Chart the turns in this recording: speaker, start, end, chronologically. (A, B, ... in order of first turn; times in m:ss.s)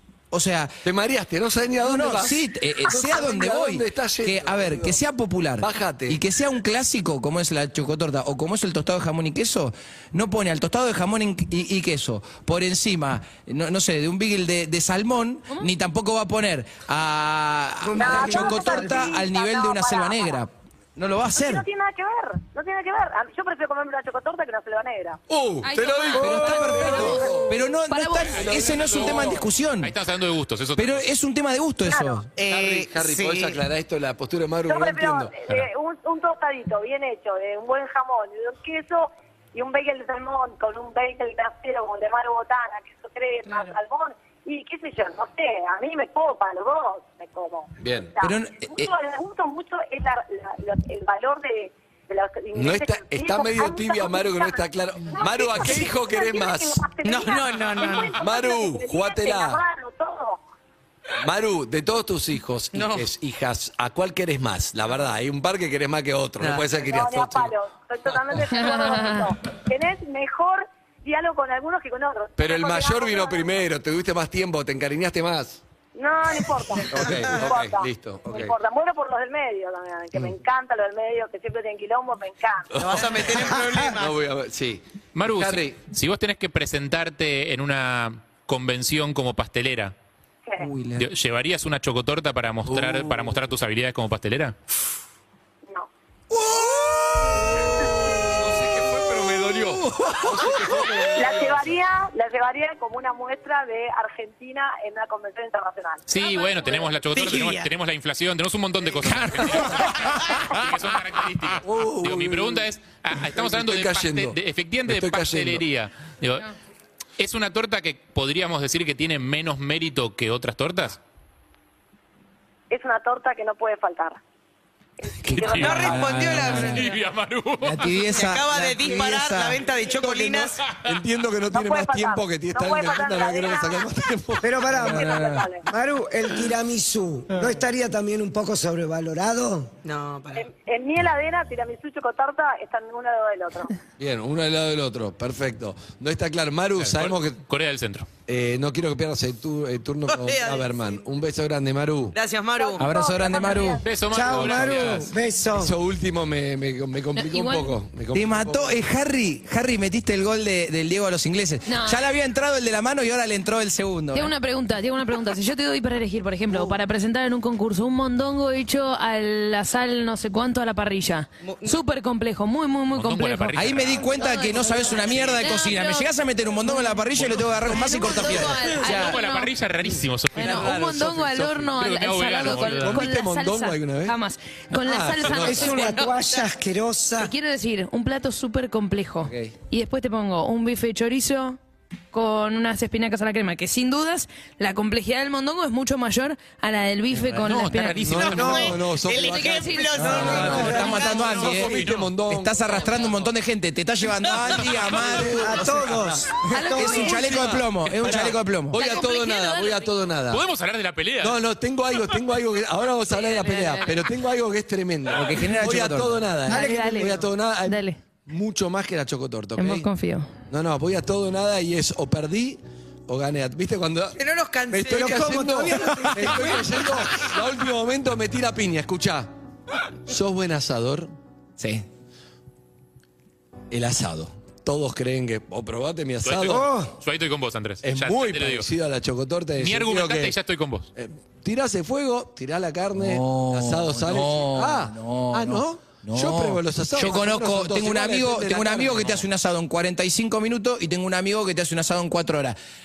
0:00.3-0:00.7 A
0:00.8-0:05.0 B
0:01.8-0:21.7 A
0:05.6-0:06.2 B
0:17.8-0:19.1 C
0:18.0-0:20.4 D
0:21.3-0:25.2 D
0:25.3-0:27.5 B
0:25.6-0:28.4 E
0:26.1-0:29.9 A
0:28.4-0:31.0 F
0:28.4-0:29.4 B
0:30.8-0:32.2 A
0:31.8-0:32.2 D
0:32.4-0:33.6 G
0:32.4-0:35.6 B
0:34.6-1:00.4 D
0:43.5-0:43.7 E
0:47.8-0:48.1 B
0:48.2-0:48.9 A
0:52.5-0:56.9 B
0:57.0-0:58.2 G
0:57.8-0:59.6 B
1:01.2-1:07.5 B
1:02.7-1:03.1 G
1:06.4-1:06.6 G
1:06.8-1:13.6 D
1:08.5-1:09.2 E
1:12.4-1:15.6 B
1:15.9-1:22.7 D
1:16.9-1:18.5 B
1:22.7-1:25.8 B
1:22.8-1:24.1 G
1:25.1-1:29.9 F
1:30.4-1:30.7 D
1:30.6-1:31.1 A
1:31.0-1:34.5 F
1:32.7-1:33.4 B
1:36.3-1:37.6 B
1:38.4-1:41.7 B
1:39.8-1:41.0 A
1:41.2-1:46.9 D
1:46.1-1:56.5 F
1:47.1-1:47.6 G
1:49.0-1:50.9 A
1:51.6-1:52.6 B
1:53.2-1:55.6 B
1:57.2-2:01.0 F
2:02.7-2:04.2 D
2:05.0-2:05.8 D
2:05.3-2:06.9 A
2:05.3-2:08.0 F
2:05.3-2:06.9 G
2:07.6-2:09.6 A
2:08.1-2:10.6 G
2:09.9-2:14.6 B
2:11.5-2:13.9 D
2:14.4-2:19.7 C
2:14.7-2:15.5 A
2:14.8-2:15.6 D
2:19.8-2:20.5 G
2:20.3-2:23.7 D
2:24.0-2:27.4 B
2:26.8-2:28.1 F
2:28.3-2:32.2 B
2:30.1-2:31.0 G
2:32.1-2:32.9 G
2:32.6-2:34.0 D
2:32.8-2:33.8 A
2:33.2-2:33.8 E
2:33.8-2:35.1 F
2:34.0-2:35.7 C
2:34.3-2:38.8 B
2:37.2-2:37.7 E
2:38.1-2:44.3 A
2:41.7-2:42.0 E
2:44.1-2:56.1 E
2:51.4-2:51.8 G
2:52.9-2:54.1 F
2:53.5-2:59.2 A
2:56.6-2:59.5 E
2:58.4-3:00.7 F
3:00.3-3:06.0 E
3:00.3-3:01.7 B
3:01.7-3:03.0 F
3:02.4-3:04.1 B
3:04.7-3:05.8 B
3:05.4-3:07.3 C
3:05.8-3:06.1 G
3:07.2-3:11.6 E
3:09.2-3:09.5 A
3:12.1-3:20.6 E
3:17.2-3:18.8 F
3:18.0-3:22.9 B
3:18.3-3:18.7 C
3:19.0-3:21.6 G
3:19.9-3:26.2 A
3:20.0-3:20.9 C
3:21.5-3:22.1 F
3:22.7-3:23.3 F
3:24.4-3:26.3 B
3:25.3-3:27.3 C
3:26.5-3:27.4 E
3:26.8-3:28.8 A
3:27.0-3:30.4 B
3:28.7-3:29.9 E
3:30.3-3:31.4 F
3:31.2-3:39.9 B
3:33.1-3:34.0 E
3:35.1-3:36.2 A
3:36.5-3:37.3 C
3:36.5-3:38.0 E
3:39.6-3:40.3 E
3:40.5-3:44.2 B
3:44.1-3:45.4 G
3:44.7-3:49.3 B
3:44.9-3:46.8 C
3:50.1-3:51.1 B
3:51.6-3:51.8 A
3:53.7-3:56.7 B
3:56.2-3:58.7 F
3:56.5-3:56.9 C
3:57.8-4:00.4 B
3:59.6-4:00.9 F
4:01.0-4:09.2 B
4:02.9-4:12.6 A